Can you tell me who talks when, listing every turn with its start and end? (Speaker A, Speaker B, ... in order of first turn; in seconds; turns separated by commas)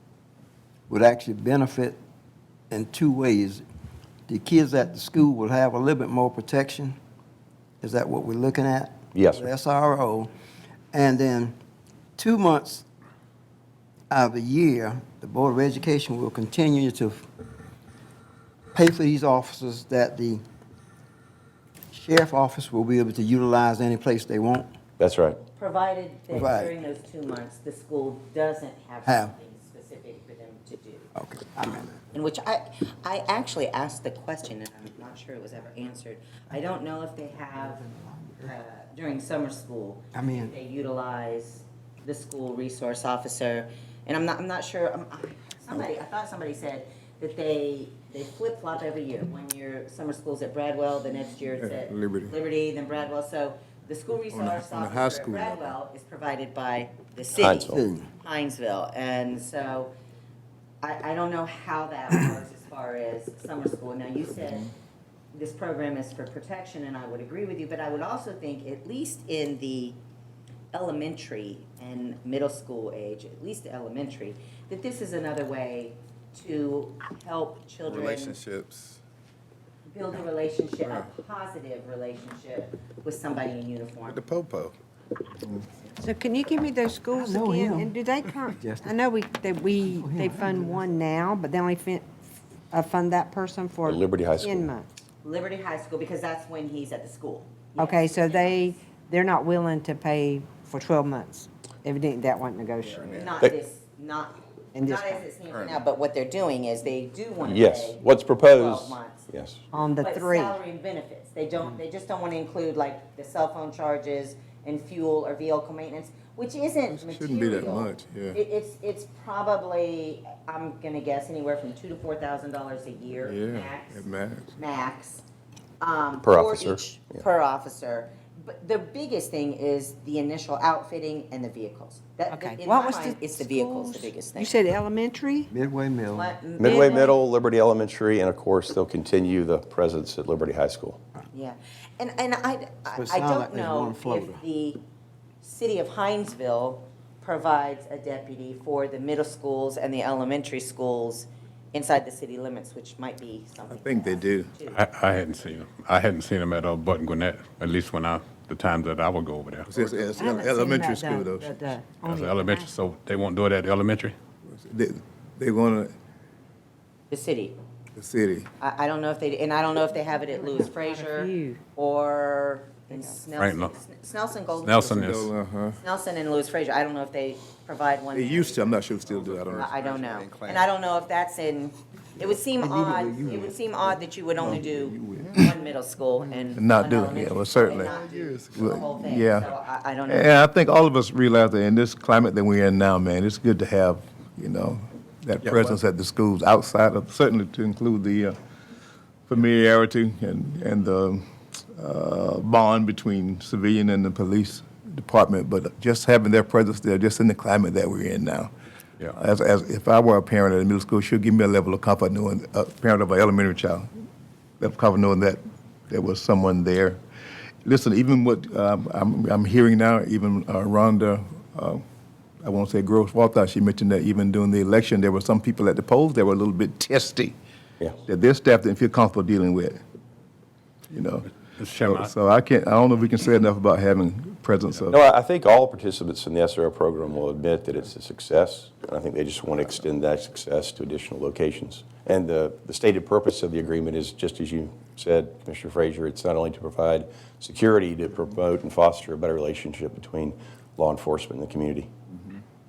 Speaker A: 0.9-2.0, Speaker A: 2.7-3.6, Speaker A: 4.3-7.0, Speaker A: 7.8-10.3, Speaker B: 9.2-9.5, Speaker A: 10.9-11.6, Speaker A: 12.2-12.9, Speaker A: 14.1-17.3, Speaker A: 18.7-20.4, Speaker A: 21.9-24.7, Speaker B: 25.0-25.4, Speaker C: 25.6-31.1, Speaker A: 26.3-26.7, Speaker A: 29.1-29.3, Speaker A: 31.1-32.0, Speaker C: 32.1-37.8, Speaker A: 37.6-38.5, Speaker C: 38.4-59.9, Speaker A: 40.1-40.6, Speaker D: 51.6-52.4, Speaker D: 54.3-55.7, Speaker B: 57.4-57.8, Speaker A: 57.6-58.1, Speaker C: 60.8-64.7, Speaker D: 64.4-64.7, Speaker C: 65.3-70.0, Speaker C: 70.7-78.4, Speaker E: 77.8-79.0, Speaker C: 79.9-84.2, Speaker E: 84.1-84.7, Speaker F: 86.0-92.0, Speaker A: 87.1-87.9, Speaker A: 88.5-89.0, Speaker A: 89.8-91.0, Speaker F: 92.7-94.9, Speaker B: 93.8-94.7, Speaker C: 95.2-98.7, Speaker F: 97.8-103.2, Speaker C: 103.0-109.3, Speaker E: 103.0-103.4, Speaker F: 104.8-105.3, Speaker B: 107.4-109.6, Speaker F: 109.7-110.6, Speaker C: 110.0-124.0, Speaker D: 116.9-118.4, Speaker D: 123.2-124.6, Speaker C: 124.6-125.2, Speaker C: 125.8-134.6, Speaker B: 126.2-127.2, Speaker F: 132.3-135.5, Speaker A: 135.5-136.4, Speaker C: 136.1-137.2, Speaker B: 136.6-141.0, Speaker F: 136.6-137.1, Speaker C: 141.3-144.8, Speaker A: 143.0-144.4, Speaker C: 145.4-154.8, Speaker D: 153.7-154.5, Speaker G: 154.7-159.7, Speaker D: 159.7-161.6, Speaker F: 160.2-162.7, Speaker G: 162.1-164.2, Speaker D: 164.5-165.9, Speaker C: 167.1-167.6, Speaker D: 168.0-168.5, Speaker C: 168.6-174.8, Speaker F: 170.1-171.6, Speaker F: 172.9-173.2, Speaker G: 173.4-173.7, Speaker G: 174.6-175.3, Speaker D: 174.7-175.8, Speaker C: 175.8-178.9, Speaker D: 178.1-179.7, Speaker E: 179.1-180.8, Speaker C: 179.5-190.3, Speaker A: 182.6-183.5, Speaker D: 184.4-185.6, Speaker D: 186.6-188.0, Speaker E: 187.7-189.0, Speaker D: 188.5-189.5, Speaker D: 190.1-198.3, Speaker D: 199.3-208.5, Speaker D: 209.1-213.9, Speaker D: 214.6-217.0, Speaker D: 217.7-221.8, Speaker D: 222.4-227.4, Speaker D: 228.0-229.8, Speaker D: 230.9-231.3, Speaker G: 231.6-232.1, Speaker D: 231.8-235.0, Speaker B: 234.9-251.9